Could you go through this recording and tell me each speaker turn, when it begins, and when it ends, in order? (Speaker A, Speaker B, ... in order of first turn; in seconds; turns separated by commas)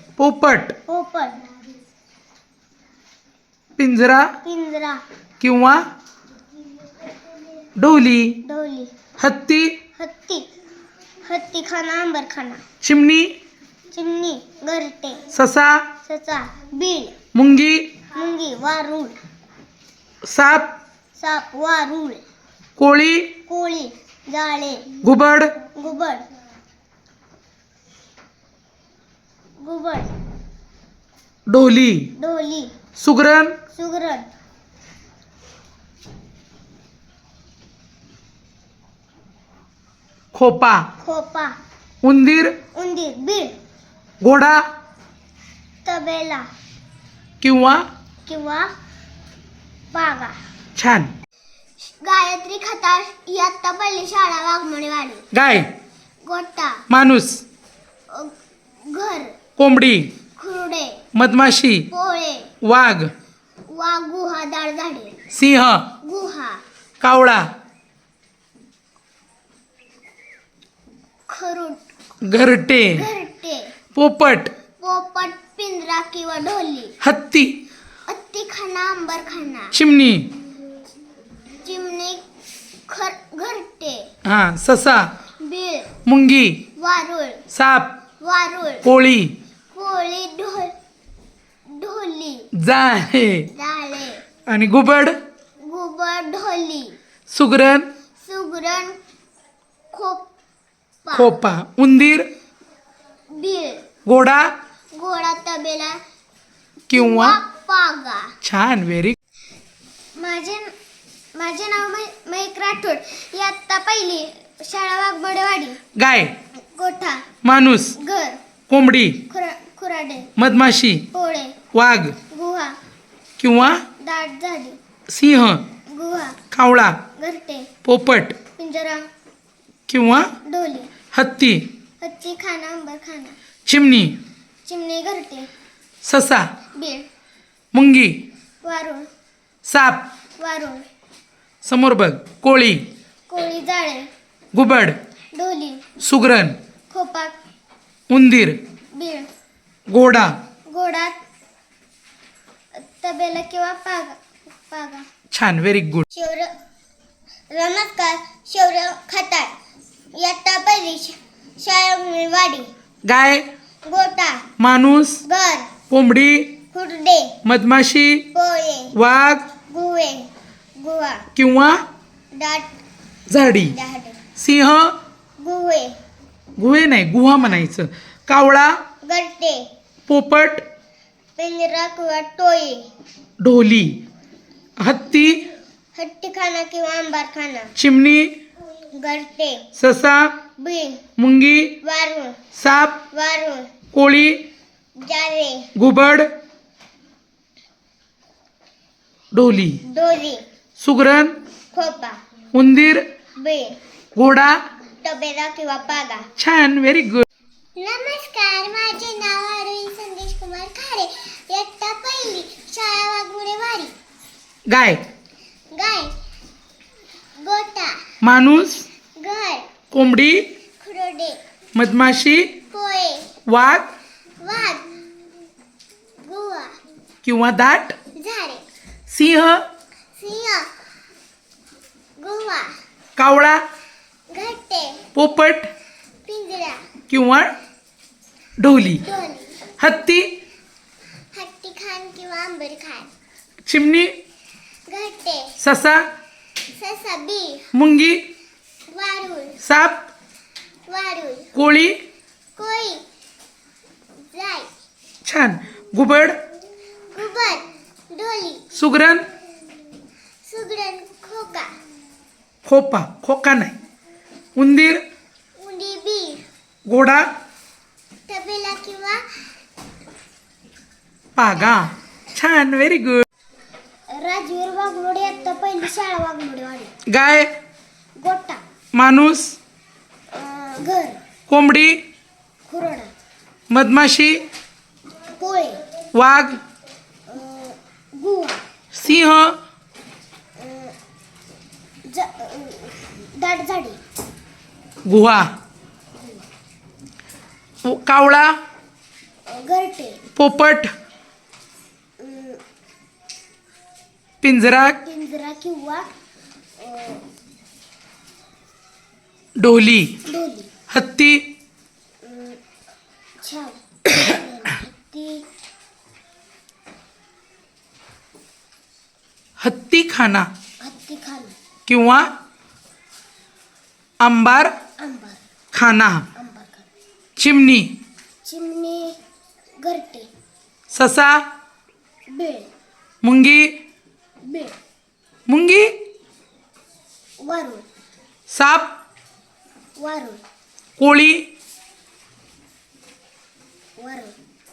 Speaker A: 0.2-0.8, Speaker B: 0.8-1.4, Speaker A: 3.8-4.3, Speaker B: 4.4-5.0, Speaker A: 5.4-5.8, Speaker A: 7.8-8.4, Speaker B: 8.4-8.9, Speaker A: 9.2-9.8, Speaker B: 10.0-10.4, Speaker B: 11.2-12.6, Speaker A: 12.8-13.3, Speaker B: 13.9-15.2, Speaker A: 15.3-15.9, Speaker B: 16.0-17.1, Speaker A: 17.3-17.9, Speaker B: 18.1-19.1, Speaker A: 20.2-20.7, Speaker B: 21.2-22.2, Speaker A: 22.8-23.3, Speaker B: 23.5-24.9, Speaker A: 25.0-25.5, Speaker B: 25.7-26.2, Speaker B: 29.6-30.1, Speaker A: 31.5-32.1, Speaker B: 32.2-32.7, Speaker A: 33.0-33.5, Speaker B: 33.7-34.3, Speaker A: 40.3-40.9, Speaker B: 41.0-41.6, Speaker A: 42.0-42.5, Speaker B: 42.7-43.5, Speaker A: 44.2-44.6, Speaker B: 45.8-46.5, Speaker A: 47.4-47.9, Speaker B: 48.2-48.7, Speaker B: 49.9-50.4, Speaker A: 50.8-51.1, Speaker B: 51.8-55.2, Speaker A: 55.3-55.7, Speaker B: 56.2-56.8, Speaker A: 56.9-57.4, Speaker B: 58.1-58.3, Speaker B: 58.9-59.4, Speaker A: 59.6-60.1, Speaker B: 60.4-61.0, Speaker A: 61.1-61.9, Speaker B: 61.9-62.5, Speaker A: 62.6-63.1, Speaker B: 63.7-65.1, Speaker A: 65.3-65.8, Speaker B: 66.0-66.6, Speaker A: 67.0-67.5, Speaker B: 71.3-71.8, Speaker A: 72.2-73.0, Speaker B: 72.9-73.7, Speaker A: 74.0-74.5, Speaker B: 74.8-77.0, Speaker A: 77.0-77.5, Speaker B: 78.1-79.8, Speaker A: 79.7-80.3, Speaker B: 81.6-82.2, Speaker B: 82.9-84.1, Speaker A: 84.2-85.1, Speaker B: 85.4-85.9, Speaker A: 86.0-86.6, Speaker B: 86.8-87.4, Speaker A: 87.5-87.9, Speaker B: 88.2-88.9, Speaker A: 88.8-89.3, Speaker B: 89.7-90.7, Speaker B: 91.7-92.5, Speaker A: 92.5-93.5, Speaker B: 93.5-94.2, Speaker A: 94.5-95.2, Speaker B: 95.6-97.0, Speaker A: 97.3-97.9, Speaker B: 98.2-99.0, Speaker B: 99.9-100.3, Speaker B: 101.0-101.3, Speaker A: 101.1-102.3, Speaker B: 103.3-103.8, Speaker A: 104.0-104.5, Speaker B: 104.9-106.0, Speaker A: 106.9-107.4, Speaker B: 106.9-108.3, Speaker A: 108.4-109.2, Speaker B: 110.2-110.7, Speaker B: 111.3-115.8, Speaker A: 116.0-116.3, Speaker B: 116.5-117.2, Speaker A: 117.4-118.0, Speaker B: 118.0-118.4, Speaker A: 118.7-119.2, Speaker B: 119.3-120.3, Speaker A: 120.4-121.0, Speaker B: 121.1-121.6, Speaker A: 121.7-122.2, Speaker B: 122.3-122.8, Speaker A: 123.4-123.8, Speaker B: 124.0-124.8, Speaker A: 125.1-125.6, Speaker B: 125.9-126.4, Speaker A: 126.5-127.0, Speaker B: 127.2-127.7, Speaker A: 127.8-128.4, Speaker B: 128.6-129.1, Speaker A: 129.9-130.3, Speaker B: 130.4-130.9, Speaker A: 131.1-131.7, Speaker B: 132.0-133.4, Speaker A: 133.7-134.1, Speaker B: 134.6-135.5, Speaker A: 136.0-136.5, Speaker B: 136.7-137.1, Speaker A: 137.7-138.2, Speaker B: 138.6-139.1, Speaker A: 139.7-140.1, Speaker B: 140.4-140.8, Speaker A: 141.6-142.8, Speaker B: 143.3-144.1, Speaker A: 144.5-145.0, Speaker B: 145.3-145.8, Speaker A: 146.0-146.6, Speaker B: 146.9-147.3, Speaker A: 148.1-148.6, Speaker B: 148.9-149.3, Speaker A: 149.9-150.3, Speaker B: 150.7-151.2, Speaker B: 152.8-155.1, Speaker A: 155.3-156.0, Speaker B: 156.1-156.5, Speaker B: 157.5-159.5, Speaker B: 160.1-162.7, Speaker A: 163.0-163.4, Speaker B: 163.8-164.4, Speaker A: 164.6-165.2, Speaker B: 165.2-165.7, Speaker A: 165.9-166.5, Speaker B: 166.7-167.3, Speaker A: 167.4-168.2, Speaker B: 168.3-168.9, Speaker A: 168.9-169.4, Speaker B: 169.7-171.2, Speaker A: 171.3-171.8, Speaker B: 172.3-172.7, Speaker A: 173.3-173.7, Speaker B: 173.6-174.2, Speaker A: 174.4-174.9, Speaker B: 175.4-175.9, Speaker A: 176.6-178.8, Speaker B: 179.0-179.7, Speaker A: 180.1-180.6, Speaker B: 181.4-182.9, Speaker A: 183.4-184.0, Speaker A: 184.8-185.4, Speaker B: 185.9-187.7, Speaker A: 187.8-188.3, Speaker B: 188.9-189.7, Speaker A: 189.8-190.3, Speaker B: 190.6-191.0, Speaker A: 191.2-191.8, Speaker B: 191.8-192.4, Speaker A: 192.6-193.0, Speaker B: 193.1-193.7, Speaker A: 193.9-194.4, Speaker B: 195.0-195.7, Speaker A: 195.7-196.3, Speaker A: 199.3-199.8, Speaker B: 199.8-200.4, Speaker A: 200.8-201.3, Speaker B: 201.7-202.2, Speaker A: 202.5-203.0, Speaker B: 203.4-203.8, Speaker A: 204.2-204.6, Speaker B: 205.0-206.3, Speaker A: 206.4-207.2, Speaker B: 207.8-213.9, Speaker A: 214.7-215.0, Speaker B: 215.7-216.1, Speaker B: 217.4-218.0, Speaker A: 218.2-218.8, Speaker B: 219.2-219.7, Speaker A: 219.9-220.4, Speaker B: 220.8-221.4, Speaker A: 221.7-222.5, Speaker B: 222.7-223.3, Speaker A: 223.5-223.9, Speaker B: 224.4-224.9, Speaker B: 226.2-226.8, Speaker A: 227.2-227.9, Speaker B: 228.1-228.6, Speaker A: 229.1-229.6, Speaker B: 230.2-230.7, Speaker B: 232.2-232.7, Speaker A: 233.2-233.6, Speaker B: 234.3-235.0, Speaker A: 235.2-235.7, Speaker B: 236.2-236.8, Speaker A: 237.1-237.5, Speaker A: 238.6-239.0, Speaker B: 239.0-239.6, Speaker A: 239.8-240.3, Speaker B: 241.3-243.1, Speaker A: 243.7-244.1, Speaker B: 244.9-245.5, Speaker A: 245.6-246.1, Speaker B: 246.7-247.7, Speaker A: 247.7-248.2, Speaker B: 248.9-249.6, Speaker A: 249.6-250.1, Speaker B: 250.9-251.5, Speaker A: 251.5-252.0, Speaker B: 252.6-253.0, Speaker B: 254.3-254.7, Speaker A: 255.2-256.4, Speaker B: 257.1-258.6, Speaker A: 258.7-259.3, Speaker B: 260.4-261.7, Speaker A: 262.6-263.7, Speaker A: 264.6-265.0, Speaker B: 265.6-266.4, Speaker A: 266.9-267.3, Speaker B: 268.3-269.2, Speaker A: 271.4-273.2, Speaker B: 274.1-276.9, Speaker A: 277.1-277.5, Speaker B: 278.2-278.6, Speaker A: 278.9-279.6, Speaker B: 280.3-281.2, Speaker A: 281.5-282.0, Speaker B: 282.6-283.1, Speaker A: 283.7-284.4, Speaker B: 285.4-285.8, Speaker A: 286.1-286.6, Speaker B: 287.3-288.6, Speaker A: 288.9-289.6, Speaker B: 290.6-290.9, Speaker B: 292.1-294.0, Speaker A: 295.1-295.5, Speaker A: 297.8-298.6, Speaker B: 299.4-300.2, Speaker A: 300.4-300.9, Speaker B: 302.2-302.6, Speaker A: 304.4-305.0, Speaker B: 305.0-306.1, Speaker B: 306.8-307.2, Speaker A: 309.6-310.1, Speaker B: 310.2-310.7, Speaker A: 310.9-311.4, Speaker B: 312.2-312.6, Speaker B: 313.4-315.4, Speaker A: 319.6-320.5, Speaker B: 320.8-321.6, Speaker A: 321.9-322.3, Speaker A: 324.2-324.7, Speaker B: 325.0-325.4, Speaker A: 325.7-326.2, Speaker B: 326.3-326.9, Speaker A: 327.4-327.9, Speaker B: 328.4-329.1, Speaker B: 329.8-330.3, Speaker A: 330.9-331.4, Speaker B: 332.3-332.7, Speaker A: 333.2-333.7, Speaker B: 334.4-334.7, Speaker A: 335.5-335.9, Speaker B: 337.4-337.8, Speaker A: 338.5-338.9, Speaker B: 340.0-340.4, Speaker A: 341.0-341.4, Speaker B: 344.0-344.3